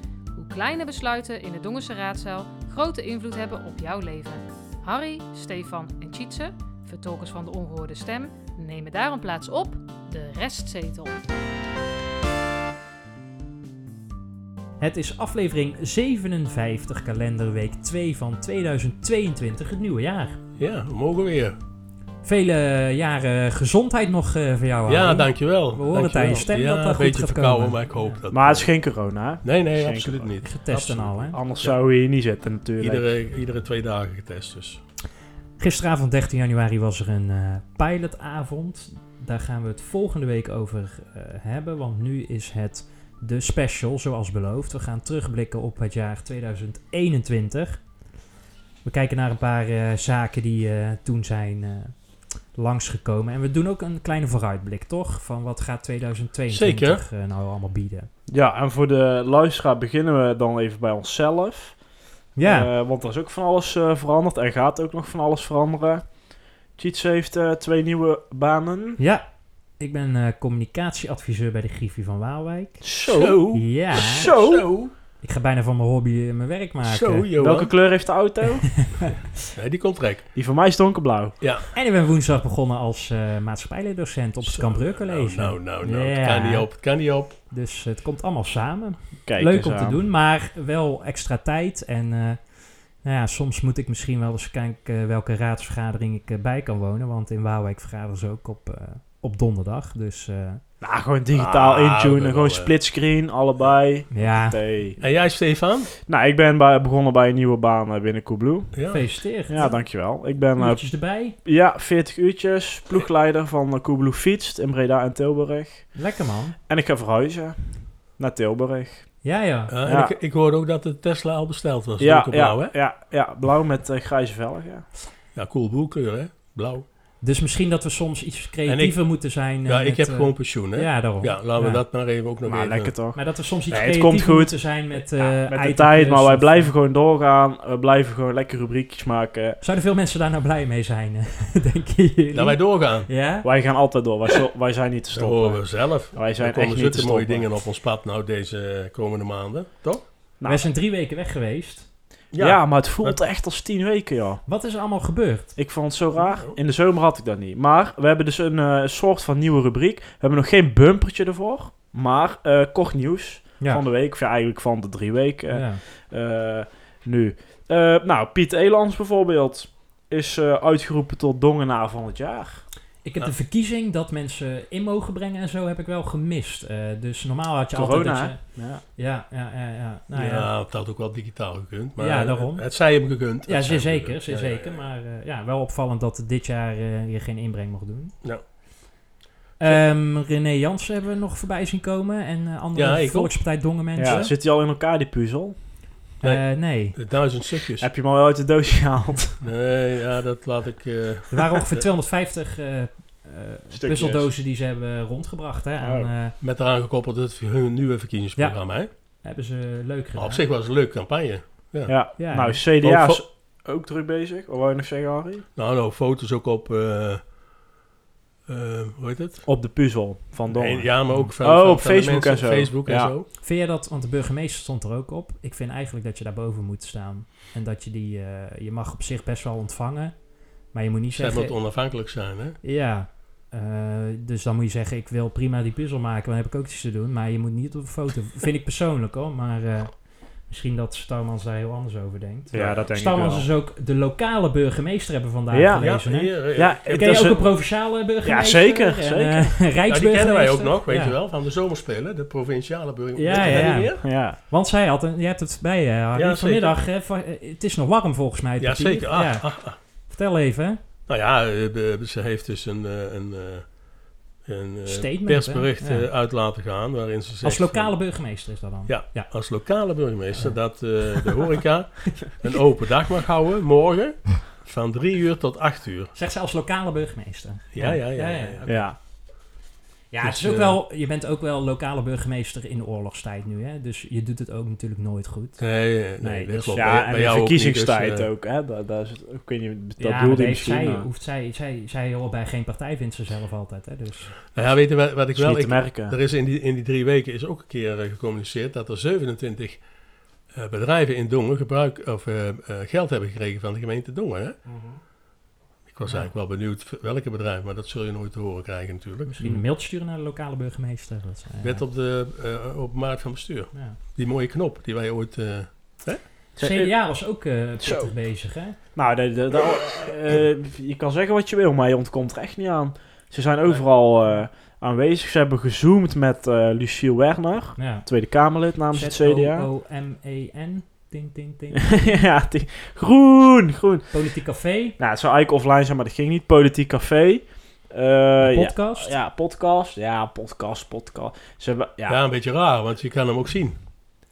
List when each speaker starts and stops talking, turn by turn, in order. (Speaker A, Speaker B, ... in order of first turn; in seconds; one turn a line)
Speaker A: 0.3-11.2
Speaker B: 14.8-20.4
Speaker C: 20.6-21.6
Speaker B: 22.2-28.1
Speaker C: 24.9-28.7
Speaker D: 28.3-30.3
Speaker C: 29.4-31.8
Speaker B: 30.4-31.4
Speaker D: 31.3-33.0
Speaker C: 32.8-34.8
Speaker B: 35.6-47.8
Speaker B: 48.8-52.0
Speaker B: 52.5-58.1
Speaker C: 56.5-57.0
Speaker D: 58.3-61.8
Speaker B: 62.4-62.7
Speaker D: 62.4-69.0
Speaker B: 69.0-69.2
Speaker B: 69.8-72.8
Speaker D: 72.8-74.7
Speaker C: 73.1-74.9
Speaker B: 73.5-74.3
Speaker B: 75.2-77.2
Speaker C: 76.8-77.8
Speaker D: 77.4-79.0
Speaker B: 78.8-79.1
Speaker C: 79.4-80.3
Speaker D: 80.3-81.4
Speaker C: 81.4-81.7
Speaker B: 81.7-86.7
Speaker C: 84.4-87.3
Speaker B: 87.5-100.6
Speaker D: 89.2-90.0
Speaker D: 100.8-105.0
Speaker C: 101.3-102.8
Speaker B: 104.1-104.6
Speaker C: 105.0-105.9
Speaker D: 106.0-108.9
Speaker C: 108.7-109.2
Speaker B: 108.9-110.0
Speaker D: 109.5-116.0
Speaker B: 110.5-111.3
Speaker B: 115.9-116.5
Speaker D: 116.7-119.3
Speaker B: 119.2-119.7
Speaker C: 119.7-122.7
Speaker D: 119.8-120.1
Speaker D: 122.0-124.9
Speaker C: 125.3-126.8
Speaker B: 127.2-131.8
Speaker C: 128.7-133.0
Speaker D: 132.4-139.6
Speaker B: 133.1-136.7
Speaker B: 139.6-143.5
Speaker C: 142.3-143.1
Speaker D: 143.4-147.5
Speaker C: 145.1-150.1
Speaker D: 150.4-150.7
Speaker B: 150.4-151.9
Speaker C: 152.3-153.2
Speaker D: 152.4-154.4
Speaker B: 154.4-155.5
Speaker D: 155.6-172.7
Speaker C: 156.2-156.5
Speaker B: 165.5-165.8
Speaker B: 173.0-180.5
Speaker D: 177.7-178.8
Speaker C: 180.1-184.8
Speaker B: 182.0-182.7
Speaker B: 183.4-188.2
Speaker B: 189.6-194.3
Speaker C: 192.7-194.3
Speaker D: 193.9-195.6
Speaker B: 196.2-197.0
Speaker C: 196.2-197.9
Speaker D: 197.8-199.4
Speaker C: 199.4-201.8
Speaker B: 201.3-206.3
Speaker D: 203.7-204.3
Speaker D: 205.8-206.1
Speaker C: 206.4-208.9
Speaker B: 208.4-210.4
Speaker C: 210.2-212.1
Speaker D: 211.9-215.4
Speaker B: 212.2-212.6
Speaker C: 212.8-213.2
Speaker C: 215.6-217.2
Speaker C: 218.5-219.4
Speaker D: 219.4-223.1
Speaker C: 220.5-223.3
Speaker B: 223.4-231.6
Speaker C: 231.1-232.6
Speaker B: 232.6-251.1
Speaker D: 242.5-243.5
Speaker C: 242.5-242.8
Speaker D: 245.5-247.6
Speaker C: 245.8-247.5
Speaker D: 248.2-249.6
Speaker C: 249.9-254.0
Speaker B: 253.2-260.8
Speaker D: 253.3-254.4
Speaker C: 256.1-256.8
Speaker C: 258.6-259.8
Speaker C: 261.1-263.8
Speaker C: 264.4-268.0
Speaker B: 264.9-266.1
Speaker B: 267.4-269.3
Speaker C: 268.9-276.1
Speaker B: 270.4-271.2
Speaker B: 276.1-278.8
Speaker C: 277.7-278.9
Speaker D: 278.7-279.0
Speaker B: 280.1-285.6
Speaker C: 280.2-280.8
Speaker C: 285.6-288.3
Speaker B: 286.2-286.7
Speaker D: 286.6-291.1
Speaker B: 290.0-294.3
Speaker C: 294.5-299.8
Speaker D: 295.3-296.1
Speaker C: 300.5-304.6
Speaker D: 304.7-305.0
Speaker C: 305.9-309.3
Speaker B: 306.1-306.3
Speaker B: 309.3-311.8
Speaker C: 311.6-316.3
Speaker B: 313.7-314.0
Speaker D: 316.6-317.0
Speaker B: 316.6-318.8
Speaker D: 317.8-318.1
Speaker D: 318.9-329.7
Speaker B: 327.8-328.1
Speaker B: 328.9-332.2
Speaker D: 331.8-334.1
Speaker B: 334.1-335.0
Speaker D: 335.0-342.2
Speaker B: 338.4-339.1
Speaker C: 342.1-343.8